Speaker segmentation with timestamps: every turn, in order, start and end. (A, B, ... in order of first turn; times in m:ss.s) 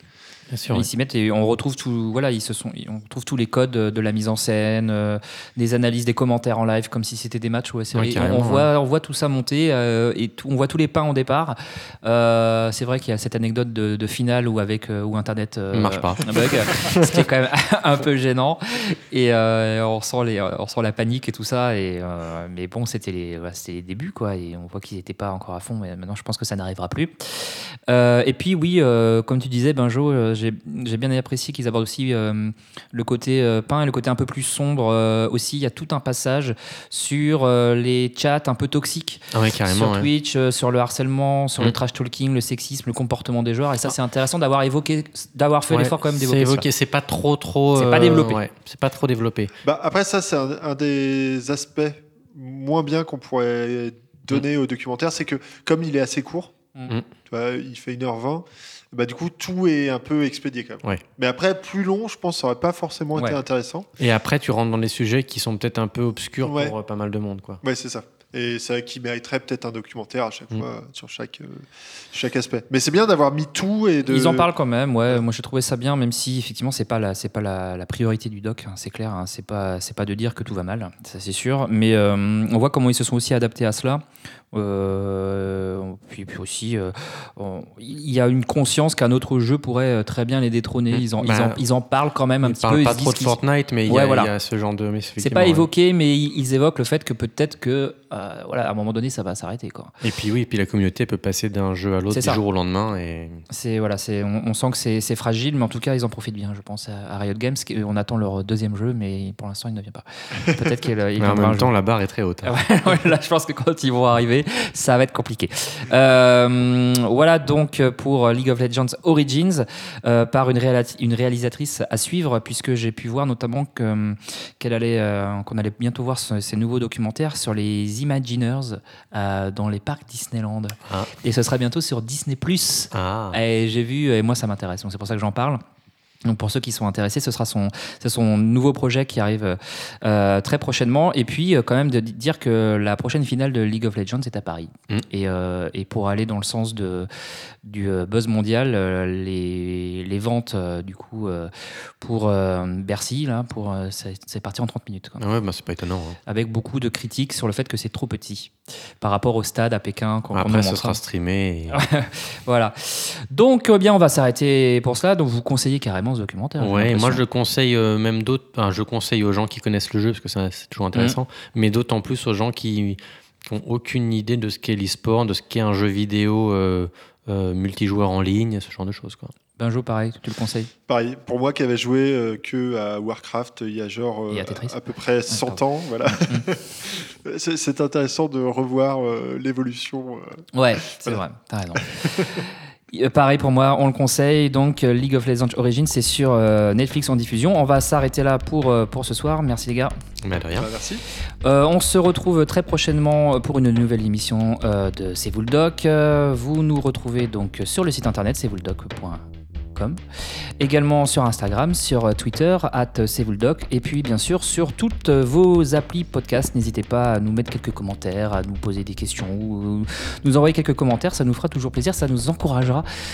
0:00.5-0:00.9 A
0:00.7-0:46.6 B
0:07.9-0:08.7 A
0:15.7-0:17.2 A
0:39.3-0:40.1 A
0:45.7-0:49.5 A
0:47.7-0:48.4 B
0:49.6-0:56.6 C
0:57.3-1:03.9 C
1:04.0-1:07.6 A
1:06.4-1:06.7 C
1:07.6-1:14.5 C
1:14.0-1:34.3 B
1:30.9-1:31.6 A
1:32.4-1:35.7 A
1:35.2-1:39.9 B
1:40.0-1:43.4 A
1:42.1-1:42.4 B
1:43.5-1:51.7 B
1:51.2-1:52.5 A
1:52.4-2:15.6 B
2:12.9-2:13.4 A
2:16.2-2:27.1 B
2:27.6-2:35.2 B
2:35.2-2:36.2 A
2:36.3-2:41.0 B
2:40.3-2:41.8 A
2:41.7-2:47.2 B
2:46.6-2:59.3 A
2:59.6-3:00.7 B
3:00.9-3:11.2 C
3:04.3-3:04.7 B
3:05.3-3:05.6 B
3:10.5-3:19.9 B
3:11.7-3:12.4 C
3:20.2-3:20.7 A
3:20.5-3:21.0 C
3:21.4-3:30.0 B
3:30.6-3:42.8 B